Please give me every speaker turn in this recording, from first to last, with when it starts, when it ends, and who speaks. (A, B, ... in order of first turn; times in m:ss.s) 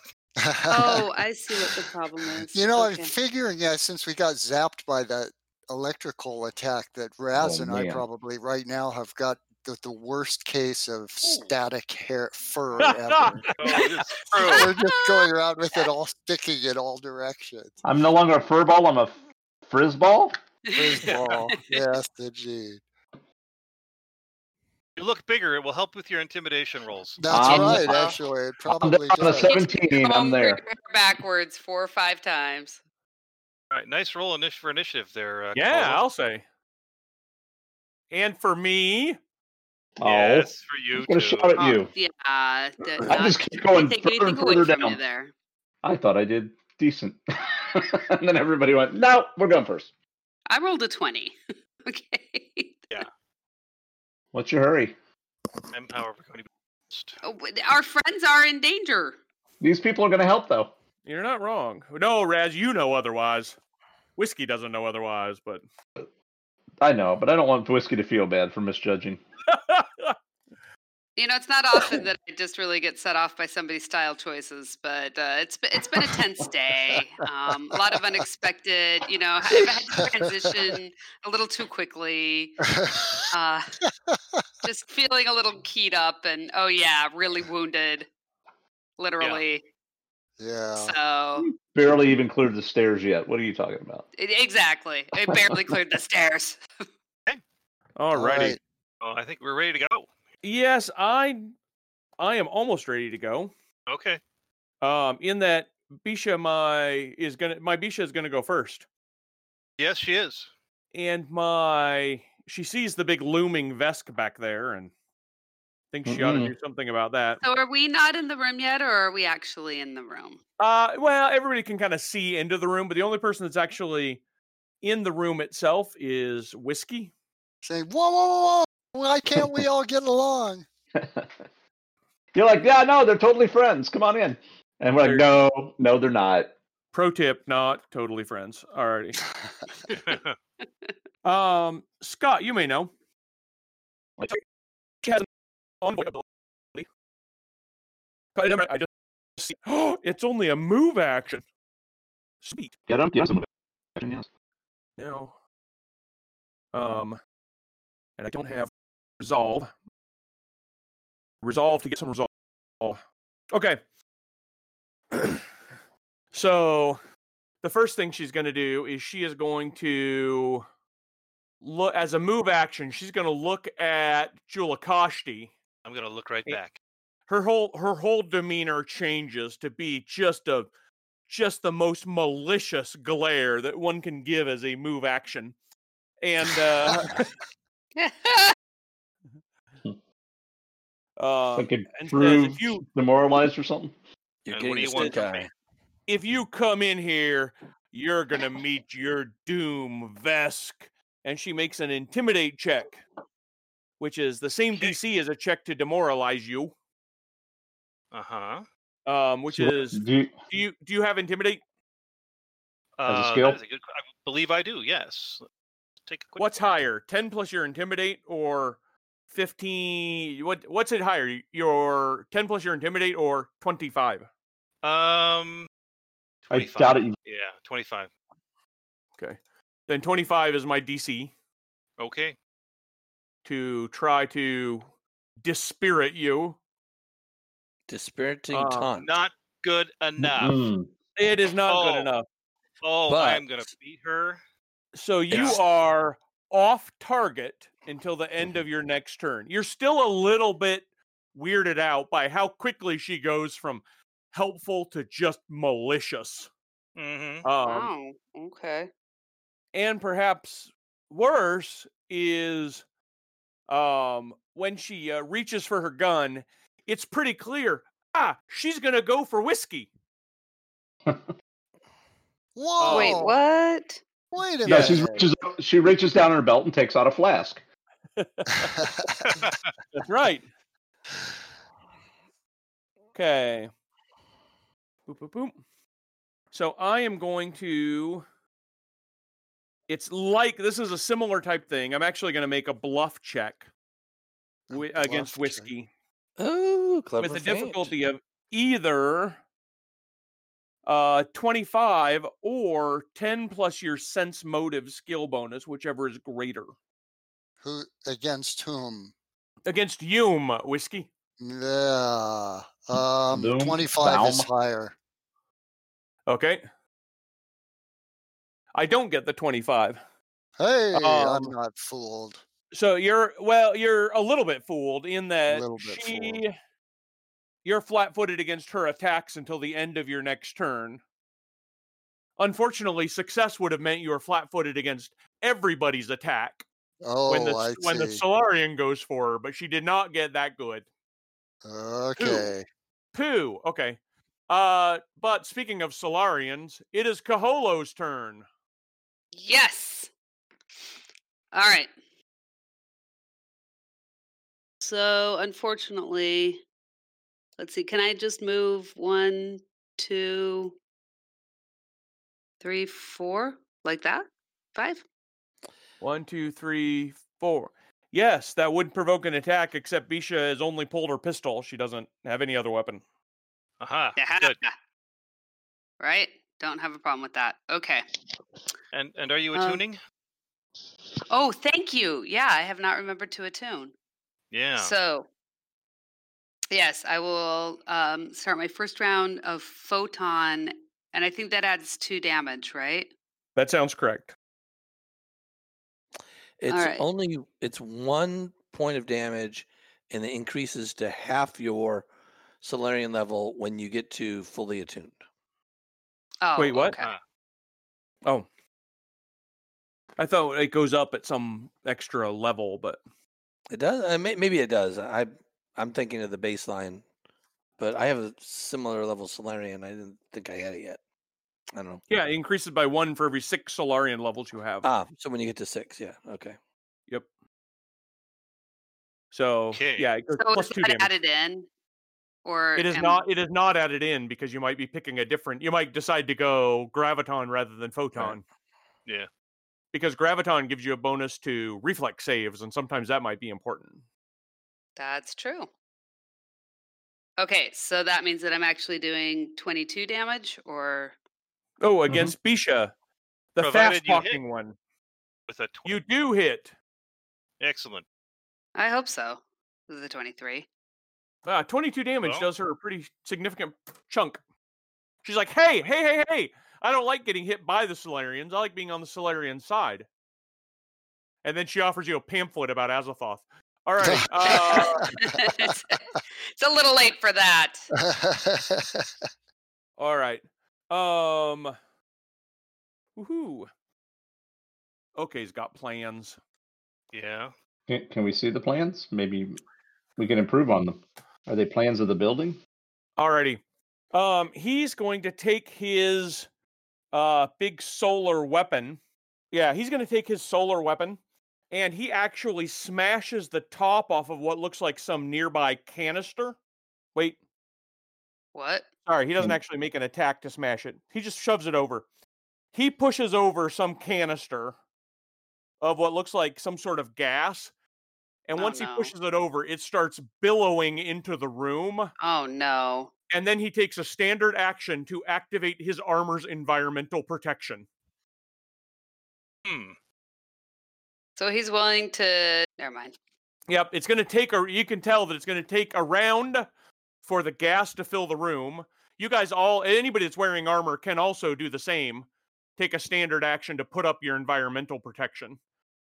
0:00.4-0:01.8 A
0:00.7-0:03.1 B
0:02.3-0:13.5 A
0:07.3-0:08.0 C
0:12.8-0:14.0 D
0:13.5-0:14.8 E
0:14.3-0:15.9 B
0:14.4-0:17.8 A
0:17.8-0:19.2 C
0:19.7-0:20.4 C
0:20.6-0:21.7 B
0:20.7-0:22.8 A
0:25.0-0:28.1 E
0:27.2-0:29.6 A
0:27.3-0:28.0 C
0:28.7-0:30.6 C
0:29.4-0:32.8 B
0:33.7-0:36.0 E
0:35.5-0:36.4 D
0:38.1-0:39.2 D
0:40.0-0:41.9 C
0:40.0-0:41.8 E
0:41.5-0:45.3 B
0:43.0-0:45.0 C
0:45.8-0:49.9 C
0:50.5-0:53.0 B
0:54.3-0:54.9 C
0:55.7-0:57.2 E
0:57.2-0:59.2 B
0:59.6-1:00.7 C
1:01.0-1:03.6 D
1:04.2-1:05.6 D
1:06.8-1:09.2 C
1:09.5-1:10.2 D
1:11.2-1:22.6 B
1:19.5-1:20.8 A
1:22.7-1:23.2 A
1:23.3-1:23.8 B
1:24.6-1:28.1 B
1:29.0-1:29.6 B
1:30.4-1:30.9 A
1:30.8-1:31.5 B
1:31.4-1:34.0 C
1:34.2-1:36.6 B
1:35.3-1:35.7 C
1:38.0-1:38.6 D
1:38.1-1:38.6 A
1:39.0-1:40.1 E
1:40.4-1:41.5 D
1:42.2-1:43.5 D
1:43.9-1:44.2 E
1:44.8-1:48.8 D
1:49.8-1:50.5 E
1:50.9-1:54.9 D
1:55.9-1:57.4 D
1:56.0-1:56.5 C
1:57.4-2:00.4 B
2:00.6-2:04.2 D
2:04.8-2:07.1 D
2:07.6-2:10.6 A
2:09.3-2:09.6 C
2:11.0-2:11.3 C
2:12.3-2:16.5 C
2:16.9-2:19.2 D
2:19.9-2:20.4 E
2:21.2-2:22.9 D
2:25.8-2:26.9 D
2:28.4-2:31.4 D
2:32.4-2:32.7 D
2:32.9-2:34.3 C
2:35.0-2:35.3 D
2:36.7-2:37.2 D
2:38.2-2:39.7 D
2:41.4-2:42.3 D
2:43.5-2:43.8 D
2:46.3-2:47.0 D
2:47.6-2:50.6 D
2:51.6-2:55.5 D
2:55.8-2:56.8 E
2:57.3-3:00.7 D
3:01.3-3:05.5 D
3:06.2-3:07.2 D
3:08.0-3:08.5 B
3:11.2-3:12.8 D
3:11.6-3:13.9 C
3:14.4-3:15.5 F
3:14.5-3:15.5 E
3:14.8-3:15.2 D
3:16.1-3:23.0 D
3:24.0-3:26.7 D
3:28.1-3:28.6 E
3:29.0-3:31.6 D
3:29.5-3:30.3 C
3:33.0-3:35.4 E
3:33.0-3:33.6 C
3:36.0-3:36.5 E
3:36.4-3:38.8 D
3:39.3-3:44.3 D
3:44.8-3:45.7 E
3:46.4-3:48.1 E
3:46.5-3:47.2 C
3:49.2-3:51.3 D
3:52.0-3:52.4 E
3:53.4-3:54.9 D
3:55.4-3:56.6 D
3:57.9-3:59.1 F
3:58.5-3:58.9 D
3:59.0-4:00.6 E
4:00.2-4:00.9 C
4:01.2-4:02.2 D
4:01.7-4:02.1 E
4:02.8-4:04.4 E
4:03.1-4:03.7 F
4:04.9-4:16.5 D
4:05.3-4:05.6 F
4:05.3-4:05.6 E
4:17.0-4:17.4 E
4:17.4-4:17.9 D
4:17.6-4:18.9 B
4:19.7-4:22.8 D
4:23.7-4:29.9 D
4:32.6-4:33.3 A
4:32.8-4:33.3 D
4:32.9-4:34.0 B
4:34.3-4:35.3 A
4:34.6-4:37.6 C
4:34.6-4:35.0 D
4:38.2-4:38.7 D
4:38.8-4:39.4 A
4:39.4-4:39.7 E
4:39.9-4:40.4 D
4:43.1-4:43.7 D
4:45.1-4:45.6 D
4:46.5-4:48.2 D
4:49.9-4:53.7 D
4:54.7-4:55.7 A
4:54.7-4:55.9 D
4:56.4-4:57.9 F
4:57.2-4:59.4 D
5:00.8-5:06.7 D
5:07.6-5:09.1 A
5:09.6-5:11.1 D
5:11.4-5:14.9 A
5:13.3-5:14.5 C
5:16.3-5:16.6 D
5:18.7-5:20.0 D
5:20.6-5:22.4 A
5:20.9-5:21.5 D
5:22.7-5:26.5 D
5:25.5-5:26.4 A
5:27.6-5:31.0 D
5:32.4-5:36.6 D
5:37.0-5:38.2 A
5:37.3-5:40.8 D
5:41.6-5:42.6 A
5:42.2-5:42.5 D
5:43.1-5:44.0 D
5:44.5-5:48.4 D
5:49.3-5:50.1 B
5:51.5-5:51.9 B
5:54.8-5:56.6 B
5:57.6-6:00.8 B
6:02.6-6:05.0 B
6:06.0-6:13.0 D
6:13.8-6:14.6 E
6:14.2-6:14.7 B
6:16.0-6:18.0 B
6:18.9-6:20.0 E
6:19.5-6:19.8 B
6:21.3-6:23.9 B
6:24.5-6:24.9 E
6:24.8-6:25.3 B
6:26.7-6:33.1 B
6:33.6-6:34.3 D
6:36.6-6:42.1 F
6:36.7-6:37.0 B
6:42.6-6:45.2 F
6:46.4-6:47.0 B
6:46.6-6:47.0 D
6:50.2-6:53.0 D
6:53.7-6:57.0 F
6:57.8-7:01.0 F
7:01.7-7:02.0 F
7:02.1-7:04.9 D
7:04.8-7:06.6 F
7:09.3-7:11.1 D
7:09.7-7:10.1 E
7:10.4-7:11.7 B
7:12.4-7:13.2 B
7:12.8-7:18.4 D
7:19.9-7:24.0 D
7:25.0-7:25.7 B
7:27.4-7:31.1 B
7:31.8-7:32.9 D
7:33.5-7:34.8 D
7:33.6-7:34.4 E
7:35.5-7:36.0 E
7:35.8-7:36.7 D
7:37.6-7:38.0 E
7:38.8-7:40.7 B
7:41.4-7:44.4 D
7:42.2-7:42.5 E
7:45.2-7:50.1 D
7:51.4-7:55.1 D
7:54.0-7:55.8 A
7:54.5-7:56.0 B
7:56.6-7:57.8 B
7:58.0-7:59.1 A
8:00.0-8:01.7 D
8:03.2-8:03.7 D
8:05.2-8:06.4 D
8:07.1-8:07.5 E
8:07.9-8:09.6 C
8:10.2-8:12.6 C
8:13.2-8:13.6 D
8:14.1-8:16.5 D
8:17.1-8:19.0 D
8:19.5-8:21.2 D
8:21.7-8:26.6 D
8:28.5-8:28.8 B
8:29.0-8:32.0 D
8:32.7-8:34.8 D
8:35.8-8:37.7 D
8:38.5-8:42.1 D
8:38.6-8:39.1 B
8:42.2-8:43.1 B
8:43.3-8:47.9 D
8:49.6-8:50.0 E
8:51.4-8:53.1 B
8:53.7-8:56.7 D
8:57.2-9:05.6 D